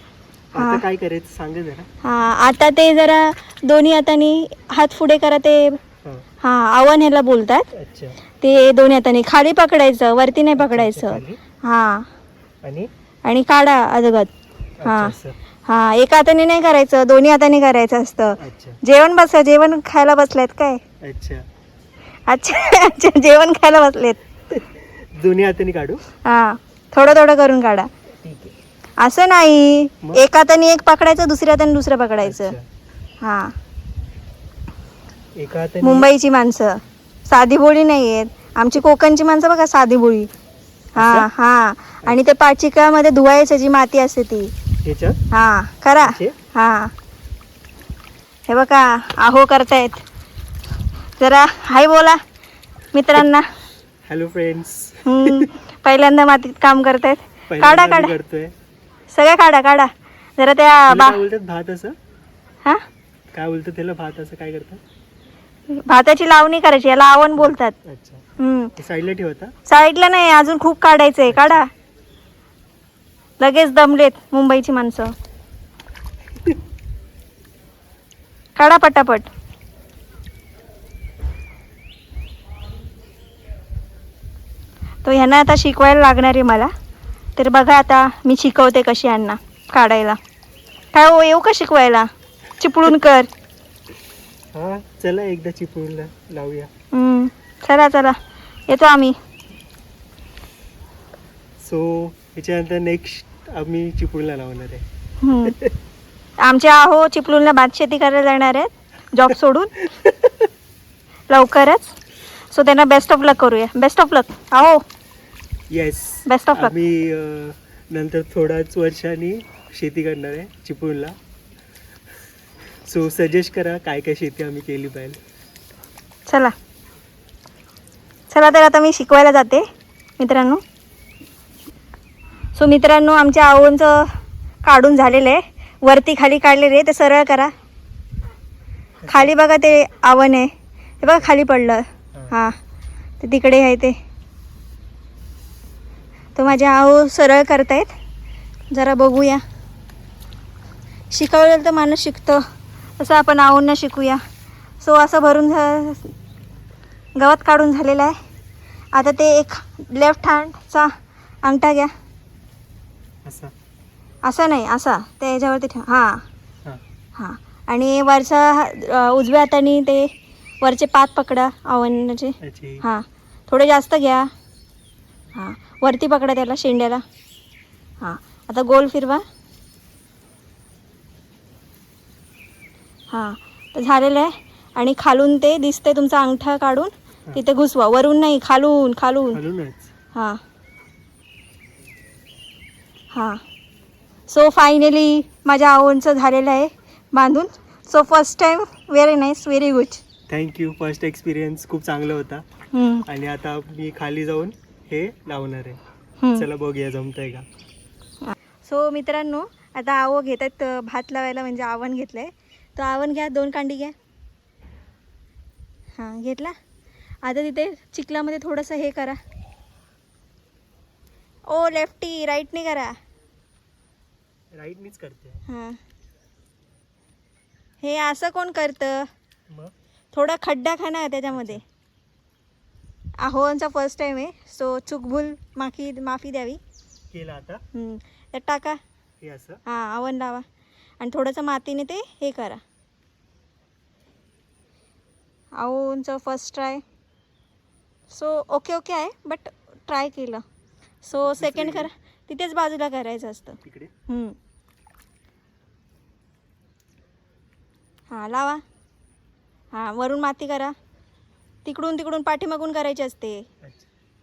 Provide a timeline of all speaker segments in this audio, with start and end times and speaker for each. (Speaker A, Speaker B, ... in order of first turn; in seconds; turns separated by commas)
Speaker A: 0.5-1.9, Speaker B: 0.6-0.8, Speaker B: 2.0-5.8, Speaker B: 6.4-7.7, Speaker A: 7.7-8.2, Speaker B: 8.4-12.1, Speaker A: 10.6-11.4, Speaker A: 12.6-12.9, Speaker B: 13.2-14.3, Speaker A: 14.8-15.4, Speaker B: 14.8-15.2, Speaker B: 15.7-20.8, Speaker A: 18.4-18.8, Speaker A: 21.0-21.5, Speaker B: 22.3-24.2, Speaker A: 24.5-26.0, Speaker B: 26.2-27.9, Speaker A: 28.2-28.5, Speaker B: 29.0-32.6, Speaker A: 32.2-32.6, Speaker B: 33.2-33.5, Speaker A: 35.4-36.1, Speaker B: 35.8-40.3, Speaker A: 41.0-41.3, Speaker B: 41.0-44.5, Speaker A: 44.8-45.2, Speaker B: 45.3-46.9, Speaker A: 46.0-46.4, Speaker B: 48.5-50.0, Speaker B: 51.2-52.2, Speaker B: 52.9-53.5, Speaker A: 54.1-55.5, Speaker B: 55.1-58.1, Speaker A: 57.5-58.5, Speaker B: 59.1-61.2, Speaker A: 60.9-62.0, Speaker A: 63.3-64.8, Speaker B: 65.7-67.7, Speaker A: 67.4-68.2, Speaker B: 68.4-68.8, Speaker A: 68.8-69.5, Speaker B: 69.7-71.7, Speaker A: 71.3-71.6, Speaker B: 73.4-75.1, Speaker B: 78.6-79.3, Speaker B: 85.0-86.7, Speaker B: 87.4-90.2, Speaker B: 90.9-93.3, Speaker A: 94.5-96.7, Speaker B: 96.9-98.2, Speaker B: 98.7-99.2, Speaker A: 101.6-104.9, Speaker B: 105.2-105.6, Speaker A: 105.5-105.8, Speaker B: 106.4-109.8, Speaker A: 110.0-110.5, Speaker B: 111.3-111.9, Speaker B: 112.5-114.8, Speaker A: 115.7-121.2, Speaker B: 116.3-116.7, Speaker A: 122.9-125.2, Speaker B: 126.3-126.5, Speaker B: 128.3-129.7, Speaker B: 130.2-130.6, Speaker B: 132.6-137.5, Speaker A: 139.0-139.3, Speaker B: 139.1-142.6, Speaker B: 143.2-144.0, Speaker B: 146.4-147.9, Speaker B: 148.7-149.4, Speaker B: 151.1-152.4, Speaker B: 153.0-154.2, Speaker B: 154.8-156.1, Speaker B: 157.2-158.2, Speaker B: 158.9-160.9, Speaker B: 161.4-161.9, Speaker A: 163.2-163.5, Speaker B: 164.3-166.2, Speaker B: 167.2-170.1, Speaker B: 170.6-174.3, Speaker A: 172.4-172.8, Speaker B: 175.3-177.0, Speaker B: 178.0-179.2, Speaker B: 183.1-189.4, Speaker A: 189.3-189.9, Speaker B: 190.2-190.4, Speaker B: 193.1-193.4, Speaker B: 194.3-200.0, Speaker A: 200.3-202.4, Speaker B: 202.7-203.1, Speaker A: 203.1-205.8, Speaker A: 206.3-207.5, Speaker B: 208.2-213.9, Speaker B: 216.0-216.5, Speaker B: 217.2-219.2, Speaker B: 221.5-222.9, Speaker A: 224.5-225.4, Speaker B: 225.5-225.8, Speaker B: 227.8-229.1, Speaker B: 230.1-231.6, Speaker A: 231.3-231.6, Speaker B: 233.2-236.6, Speaker A: 237.1-237.6, Speaker B: 237.7-238.8, Speaker A: 239.2-239.6, Speaker B: 239.7-240.4, Speaker B: 241.0-242.6, Speaker B: 245.6-246.8, Speaker B: 248.1-250.4, Speaker B: 251.0-254.4, Speaker A: 251.2-251.9, Speaker A: 253.6-253.9, Speaker B: 258.1-258.6, Speaker B: 259.7-260.8, Speaker B: 261.6-263.5, Speaker A: 263.6-263.9